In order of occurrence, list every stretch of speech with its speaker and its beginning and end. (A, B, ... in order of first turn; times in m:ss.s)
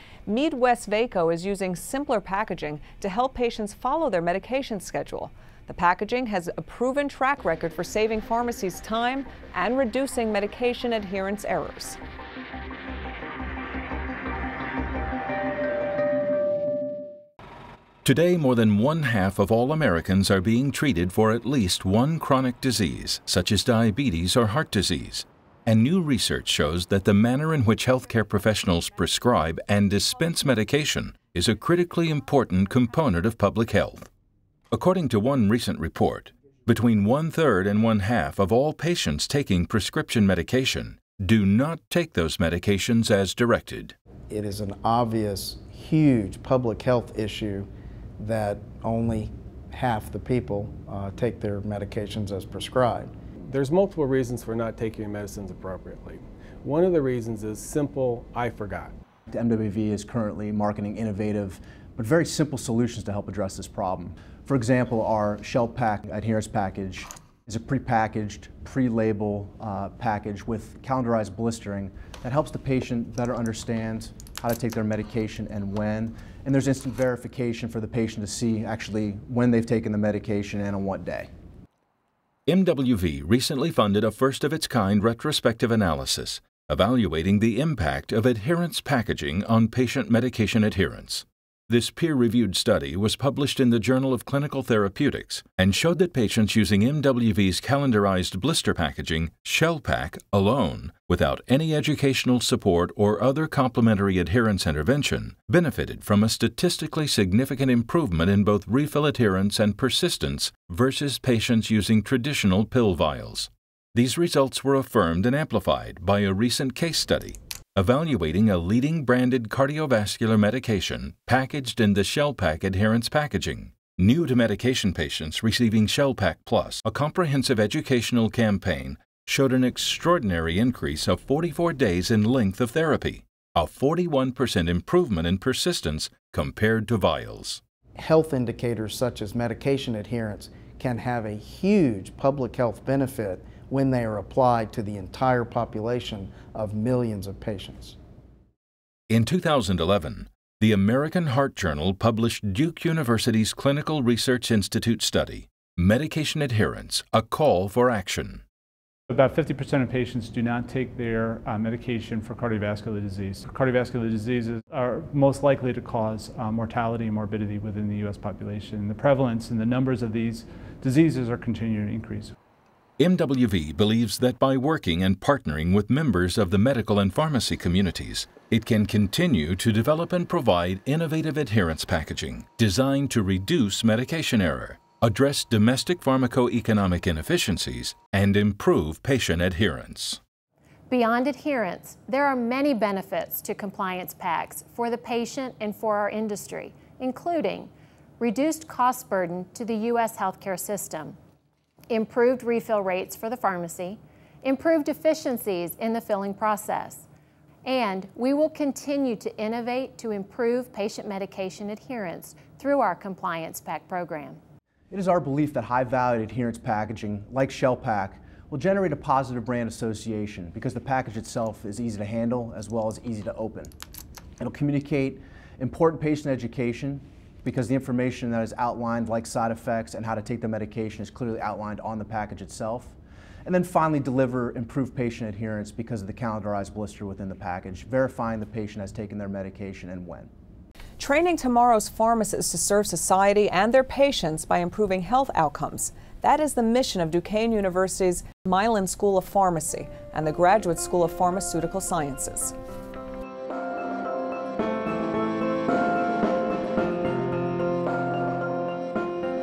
0:00.2-0:12.0 A
0:18.0-0:34.1 B
0:34.7-0:43.9 B
0:44.3-0:47.7 C
0:48.2-0:53.1 C
0:53.5-0:58.9 D
0:59.3-1:21.3 E
1:22.5-2:17.6 B
2:18.0-2:27.9 C
2:29.1-2:38.4 B
2:39.1-2:52.3 F
2:53.0-3:10.2 B
3:10.9-3:21.2 G
3:21.9-3:27.0 G
3:27.6-3:34.4 G
3:34.9-3:43.7 E
3:44.4-4:00.3 E
4:01.0-4:12.5 A